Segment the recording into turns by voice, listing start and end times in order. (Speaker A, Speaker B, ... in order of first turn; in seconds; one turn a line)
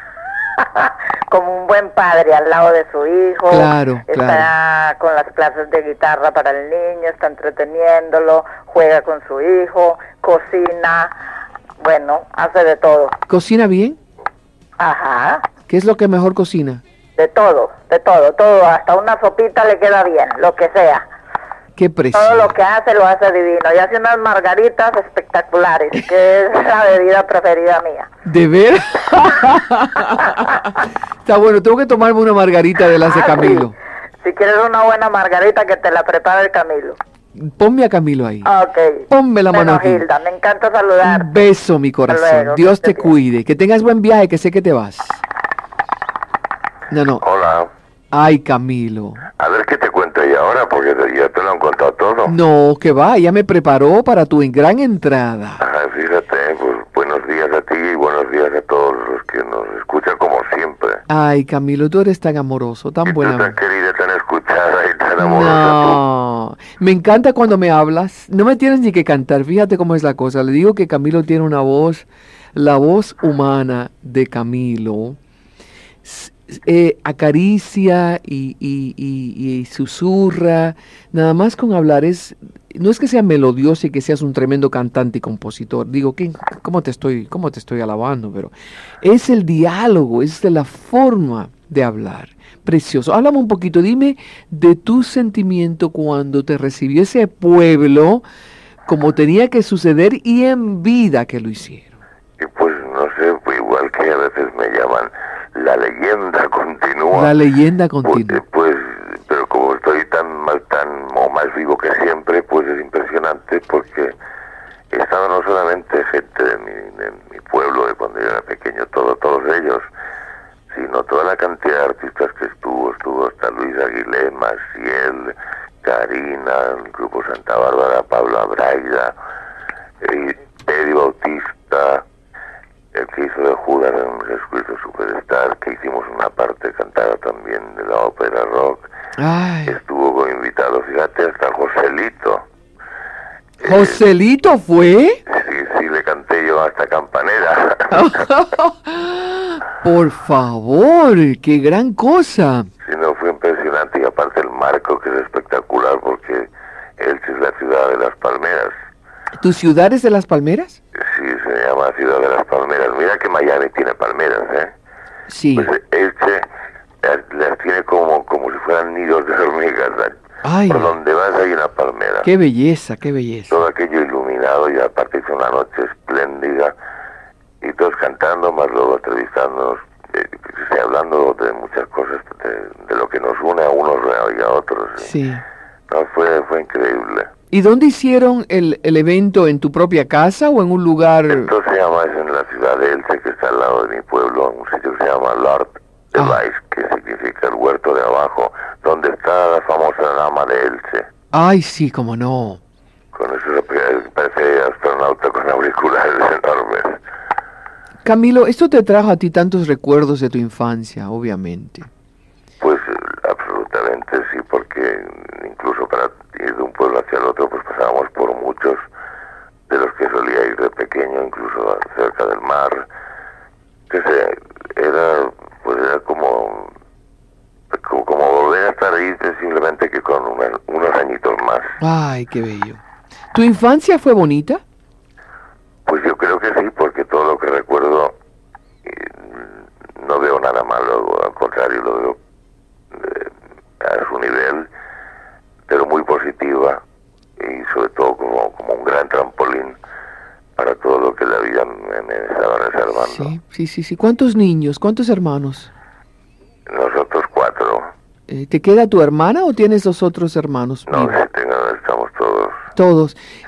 Speaker A: 0.6-11.1
Speaker B: 3.5-4.5
Speaker A: 11.8-13.2
Speaker B: 13.3-14.0
Speaker A: 14.8-15.5
Speaker B: 15.7-16.8
Speaker A: 17.2-21.0
Speaker B: 21.8-22.5
Speaker A: 22.1-28.1
Speaker B: 28.2-33.7
Speaker A: 30.1-30.6
Speaker A: 33.1-33.7
Speaker A: 34.2-37.0
Speaker B: 37.4-38.5
Speaker A: 38.5-41.3
Speaker B: 39.1-40.1
Speaker B: 41.0-45.2
Speaker A: 42.1-43.1
Speaker B: 46.9-47.2
Speaker C: 47.2-47.7
Speaker B: 48.1-49.3
Speaker C: 49.4-52.4
Speaker B: 52.3-55.6
Speaker C: 55.6-61.0
Speaker B: 61.1-63.6
Speaker C: 63.1-66.0
Speaker B: 65.2-75.2
Speaker B: 76.0-98.2
Speaker B: 98.9-102.0
Speaker C: 102.4-107.3
Speaker B: 107.1-108.4
Speaker C: 108.0-114.1
Speaker C: 114.9-119.9
Speaker C: 120.7-129.1
Speaker C: 130.0-132.0
Speaker C: 132.9-138.9
Speaker B: 139.2-139.8
Speaker C: 139.7-142.4
Speaker B: 143.6-145.2
Speaker C: 143.6-144.0
Speaker C: 145.3-148.3
Speaker B: 147.9-152.7
Speaker C: 152.8-158.7
Speaker B: 159.4-160.8
Speaker C: 160.9-164.7
Speaker B: 165.3-165.7
Speaker C: 165.6-166.4
Speaker C: 167.0-170.2
Speaker B: 170.4-170.9
Speaker C: 170.7-172.3
Speaker B: 172.2-173.5
Speaker C: 173.5-176.8
Speaker C: 177.6-185.1
Speaker B: 185.0-185.4
Speaker C: 185.9-187.3
Speaker B: 187.5-191.5
Speaker C: 191.3-201.1
Speaker B: 196.2-196.4
Speaker B: 201.3-202.6
Speaker C: 203.1-207.0
Speaker B: 208.0-211.9
Speaker C: 212.6-218.8
Speaker C: 219.7-222.9
Speaker C: 223.9-226.7
Speaker C: 227.7-231.7
Speaker B: 231.8-232.8
Speaker B: 233.3-234.6
Speaker C: 235.9-238.2
Speaker C: 238.8-242.2
Speaker C: 242.9-244.7
Speaker C: 245.7-246.8
Speaker C: 247.4-249.8
Speaker C: 250.6-253.3
Speaker B: 253.0-255.7
Speaker C: 256.7-257.9
Speaker B: 258.3-261.2
Speaker C: 260.9-262.6
Speaker B: 262.8-263.2